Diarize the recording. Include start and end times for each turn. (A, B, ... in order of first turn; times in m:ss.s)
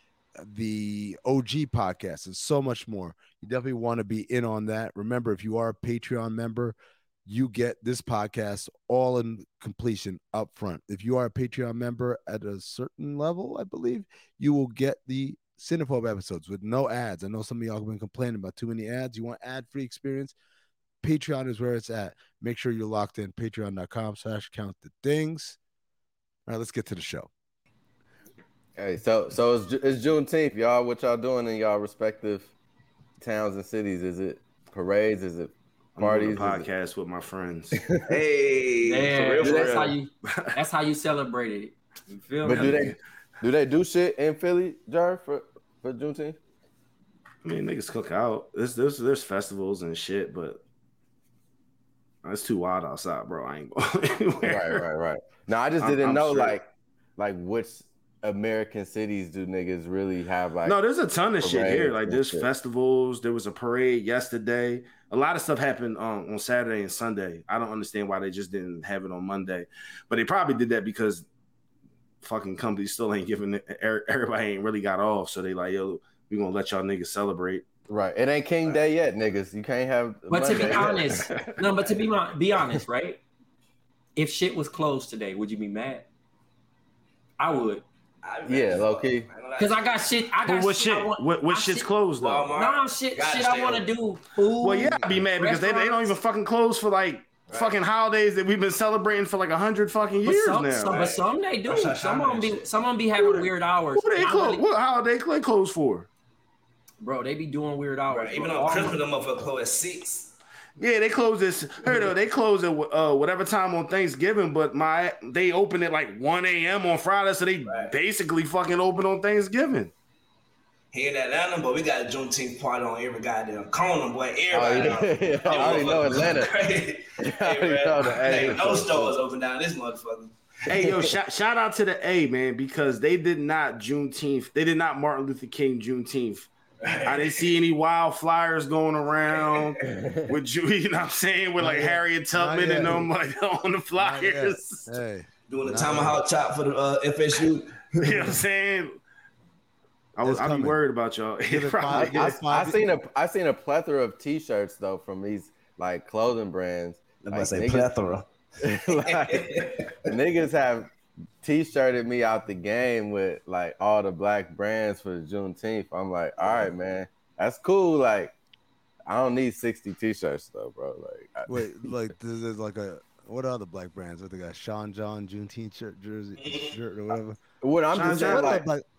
0:00.4-0:20.4 A
0:21.0-0:25.6 A
0:26.5-0:27.3 A
0:28.8-0:32.5 B
0:33.2-0:36.7 B
0:36.0-0:37.8 C
0:37.7-0:38.1 B
0:38.1-0:39.9 D
0:38.8-0:42.9 E
0:39.4-0:39.9 B
0:42.4-0:46.4 B
0:42.5-0:42.9 C
0:47.4-0:50.6 C
0:52.2-0:54.8 C
0:54.4-1:00.8 B
0:55.8-0:56.6 C
1:00.6-1:11.3 C
1:01.4-1:02.5 B
1:12.2-1:17.6 C
1:17.9-1:21.6 B
1:20.3-1:23.2 E
1:20.7-1:21.0 D
1:24.2-1:26.1 E
1:27.4-1:27.8 E
1:28.2-1:30.1 D
1:28.5-1:29.3 B
1:29.6-1:31.9 E
1:30.5-1:32.5 C
1:32.2-1:33.9 D
1:32.6-1:36.1 E
1:34.6-1:41.0 C
1:37.5-1:37.8 D
1:40.2-1:44.6 E
1:40.9-1:42.6 D
1:43.2-1:46.1 C
1:47.0-1:49.0 E
1:48.1-1:50.3 D
1:50.8-1:59.9 C
1:57.7-1:57.9 D
2:00.9-2:10.4 D
2:04.5-2:06.5 B
2:07.2-2:09.2 B
2:10.7-2:16.5 C
2:16.8-2:17.5 D
2:17.0-2:24.9 C
2:19.8-2:20.3 B
2:21.6-2:23.1 A
2:24.0-2:26.2 A
2:25.5-2:28.4 D
2:28.0-2:29.0 C
2:30.2-2:32.4 C
2:30.2-2:30.8 A
2:31.5-2:32.8 A
2:31.9-2:37.9 B
2:37.2-2:38.3 D
2:38.6-2:40.9 B
2:39.0-2:39.9 D
2:41.4-2:48.3 B
2:49.1-2:51.5 B
2:51.5-2:57.4 A
2:56.4-2:56.7 D
2:57.6-2:58.7 B
2:57.9-2:58.6 C
2:58.2-2:58.8 A